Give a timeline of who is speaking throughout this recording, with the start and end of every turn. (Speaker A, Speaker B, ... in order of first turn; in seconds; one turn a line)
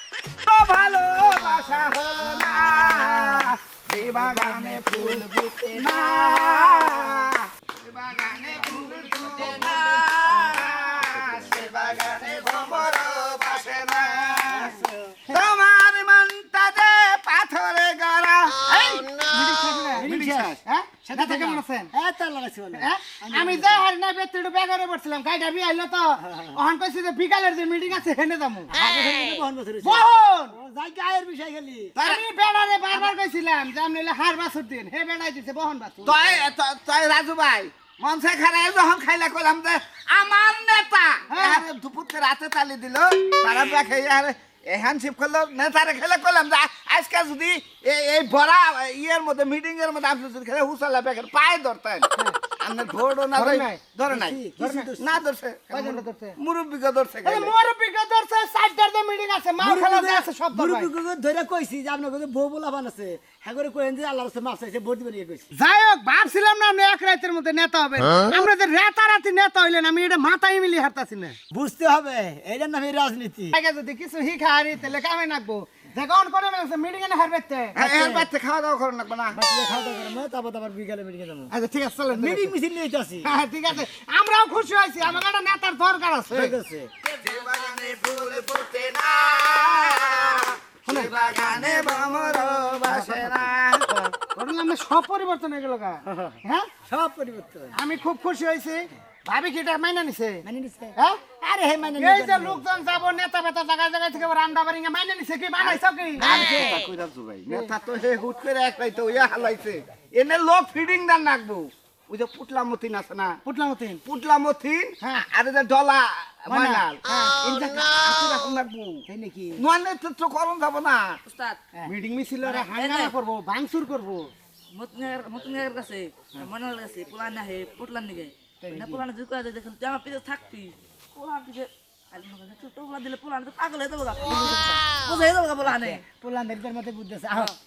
Speaker A: 0.5-18.7
Speaker B: 4.6-5.1
Speaker C: 18.7-21.9
Speaker B: 20.0-20.6
Speaker A: 20.2-20.6
Speaker B: 21.1-23.9
Speaker C: 22.8-28.7
Speaker B: 26.2-26.6
Speaker B: 28.7-31.9
Speaker C: 29.8-30.5
Speaker C: 32.0-36.4
Speaker A: 36.0-57.5
Speaker C: 41.3-41.6
Speaker C: 53.3-53.8
Speaker B: 54.1-55.2
Speaker C: 54.6-54.8
Speaker C: 55.7-56.4
Speaker C: 57.2-60.9
Speaker B: 59.6-65.5
Speaker C: 65.5-71.4
Speaker B: 71.5-73.6
Speaker C: 73.5-77.8
Speaker A: 77.8-79.4
Speaker B: 77.8-78.3
Speaker B: 79.3-81.5
Speaker C: 81.5-82.5
Speaker B: 82.1-83.3
Speaker C: 83.2-86.5
Speaker B: 86.3-86.9
Speaker A: 87.1-94.1
Speaker C: 90.9-93.3
Speaker C: 94.2-96.7
Speaker B: 96.1-97.8
Speaker C: 97.8-100.4
Speaker B: 100.4-102.6
Speaker C: 102.0-106.7
Speaker A: 105.6-113.4
Speaker B: 106.2-106.8
Speaker C: 113.5-114.0
Speaker A: 114.0-119.0
Speaker C: 116.5-117.9
Speaker B: 119.1-119.6
Speaker A: 119.6-121.2
Speaker D: 121.3-121.6
Speaker C: 121.8-124.3
Speaker D: 122.8-123.1
Speaker D: 124.7-136.0
Speaker B: 128.6-129.1
Speaker B: 134.2-135.1
Speaker B: 135.6-137.6